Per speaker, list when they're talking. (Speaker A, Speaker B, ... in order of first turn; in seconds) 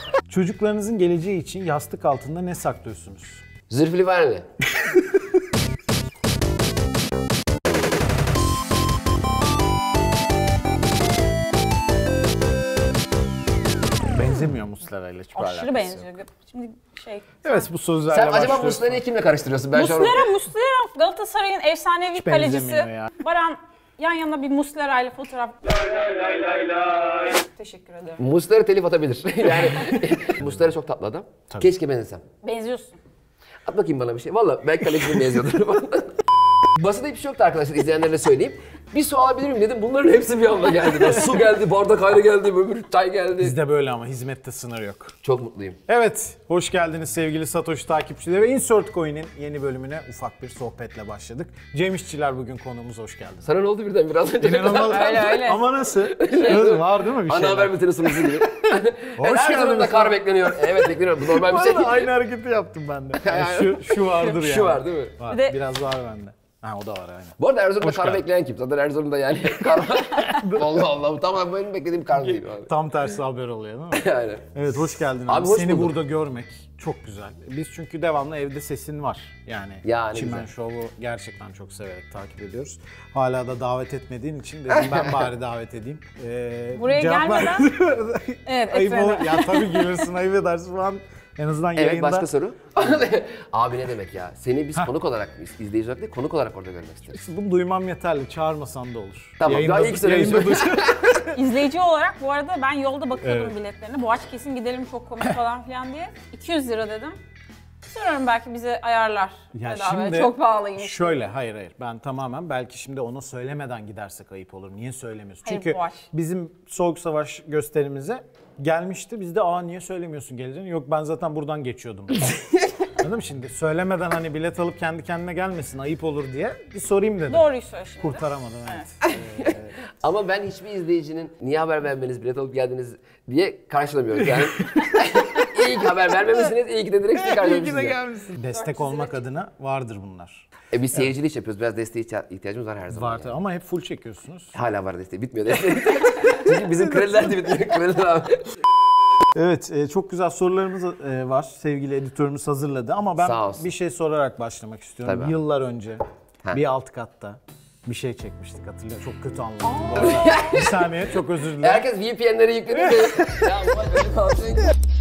Speaker A: 0.3-3.4, 14.1-16.1, 17.4-19.0, 22.1-23.1, 30.4-30.7, 43.4-45.1, 45.9-53.5, 54.4-58.5, 59.1-68.2, 70.3-70.7, 72.1-92.3, 97.1-101.3, 103.2-103.5, 109.5-122.3, 123.0-127.5, 128.0-129.8, 134.3-134.9, 137.1-141.1, 142.9-144.5, 149.3-161.8
Speaker B: 3.7-4.5, 18.1-20.2, 28.2-32.2, 33.6-36.1, 36.8-43.6, 45.2-45.8, 53.4-62.1, 63.2-65.2, 67.4-72.7, 73.9-74.6, 75.2-76.0, 79.8-80.5, 84.7-85.2, 91.8-97.2, 99.4-101.2, 129.4-138.0, 140.7-143.3, 144.5-148.4, 153.2-153.7, 155.0-155.4, 160.0-160.7, 161.6-164.7
Speaker C: 15.3-17.7, 19.7-26.4, 27.1-28.2, 32.4-33.0, 54.9-55.6, 65.3-65.6, 86.7-87.7, 88.5-90.1, 101.3-107.2, 107.9-111.2, 115.4-116.1, 127.3-128.8, 138.5-139.2, 159.6-160.6